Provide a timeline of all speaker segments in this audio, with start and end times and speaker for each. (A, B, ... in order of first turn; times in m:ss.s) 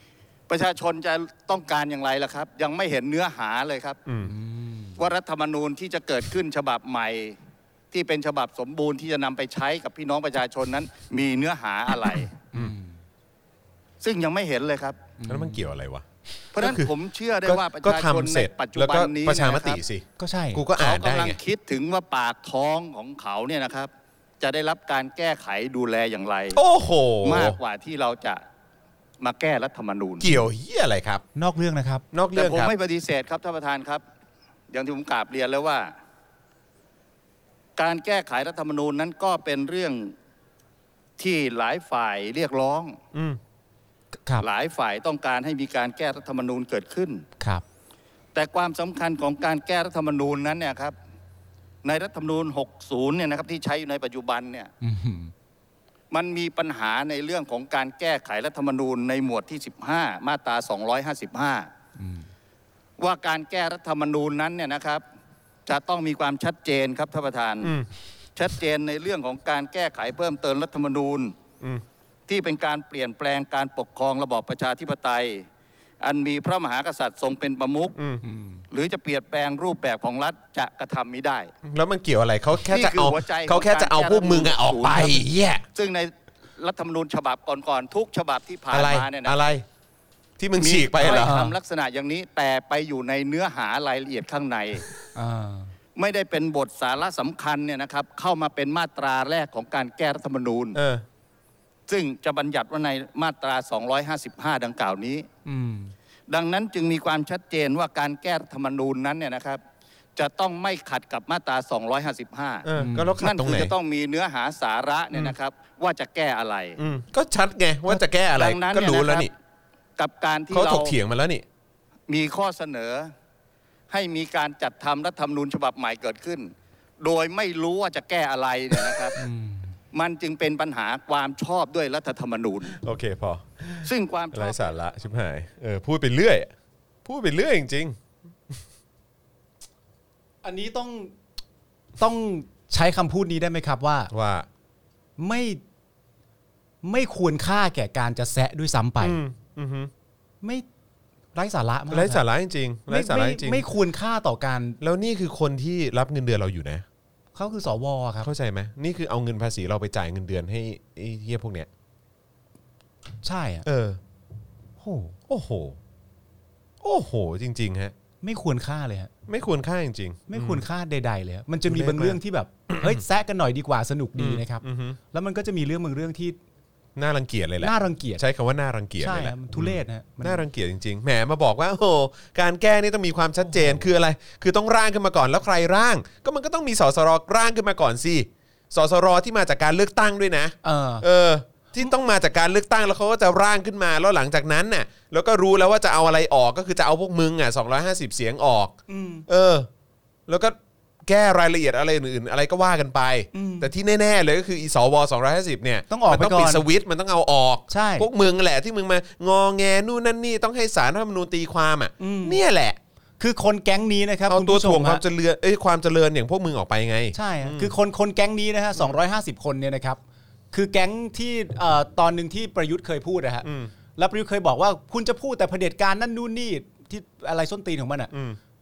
0:00.5-0:04.0 A
0:04.1-0:04.3 B
0:04.2-0:05.0 C
0:05.0-0:07.4 A
0:07.9-0:12.4 A
0:12.5-0:13.0 C
0:14.0-0:15.0 A
0:15.2-0:15.6 C
0:15.3-0:16.0 B
0:16.5-0:19.8 A
0:16.6-0:16.9 B
0:17.4-0:21.4 B
0:20.2-0:20.6 C
0:20.8-0:23.9 A
0:24.4-0:26.6 A
0:26.5-0:27.6 B
0:27.2-0:28.4 A
0:29.2-0:30.3 A
0:30.2-0:31.2 B
0:31.4-0:32.0 C
0:32.1-0:32.7 B
0:32.3-0:34.0 A
0:34.7-0:35.9 A
0:37.8-0:40.1 A
0:41.2-0:43.0 A
0:44.4-0:47.2 A
0:48.3-0:51.0 A
0:51.8-0:54.7 A
0:54.8-0:55.3 C
0:56.1-1:01.7 A
1:02.0-1:02.3 C
1:03.0-1:05.0 A
1:05.7-1:07.7 A
1:07.6-1:07.9 B
1:08.4-1:11.4 A
1:12.3-1:15.5 A
1:16.0-1:18.0 A
1:18.0-1:18.2 B
1:18.2-1:18.6 C
1:18.7-1:21.5 A
1:21.6-1:25.6 B
1:22.6-1:25.2 A
1:25.8-1:29.4 A
1:28.7-1:29.6 B
1:30.4-1:31.4 B
1:30.6-1:34.9 A
1:31.0-1:31.6 C
1:35.2-1:35.7 C
1:36.0-1:40.8 A
1:40.8-1:41.0 B
1:41.9-1:45.3 A
1:45.5-1:45.9 C
1:46.3-1:49.6 A
1:50.2-1:52.7 A
1:52.6-1:53.7 B
1:52.8-1:53.2 C
1:53.2-1:56.8 A
1:56.8-1:59.3 B
1:58.4-1:59.3 A
2:00.0-2:01.0 A
2:00.5-2:01.4 B
2:02.1-2:03.1 A
2:03.9-2:09.2 A
2:09.2-2:09.7 C
2:09.9-2:12.8 A
2:12.7-2:16.5 B
2:13.8-2:14.7 A
2:17.0-2:18.0 B
2:20.4-2:21.1 C
2:22.0-2:24.1 C
2:24.1-2:24.5 B
2:25.2-2:25.6 C
2:26.8-2:29.2 C
2:29.0-2:29.9 B
2:31.4-2:32.2 C
2:31.9-2:33.7 B
2:32.9-2:34.8 C
2:34.8-2:36.8 B
2:37.4-2:38.3 C
2:38.2-2:41.7 B
2:43.2-2:43.7 C
2:43.6-2:44.0 B
2:44.8-2:45.2 C
2:45.3-2:45.8 B
2:46.8-2:47.9 B
2:48.2-2:49.1 C
2:49.3-2:50.6 B
2:50.3-2:56.4 C
2:51.7-2:52.2 B
2:52.7-2:53.0 B
2:54.2-2:55.0 B
2:57.0-3:18.8 B
2:57.6-2:58.2 C
2:59.0-3:00.4 C
3:10.6-3:11.0 C
3:18.9-3:19.3 C
3:19.3-3:19.7 B
3:20.3-3:32.8 B
3:23.3-3:23.7 C
3:25.9-3:26.6 C
3:27.7-3:28.1 C
3:32.0-3:32.4 C
3:33.2-3:35.0 C
3:34.3-3:37.7 B
3:37.1-3:40.0 C
3:40.5-3:48.1 C
3:43.4-3:43.7 B
3:48.1-3:48.4 B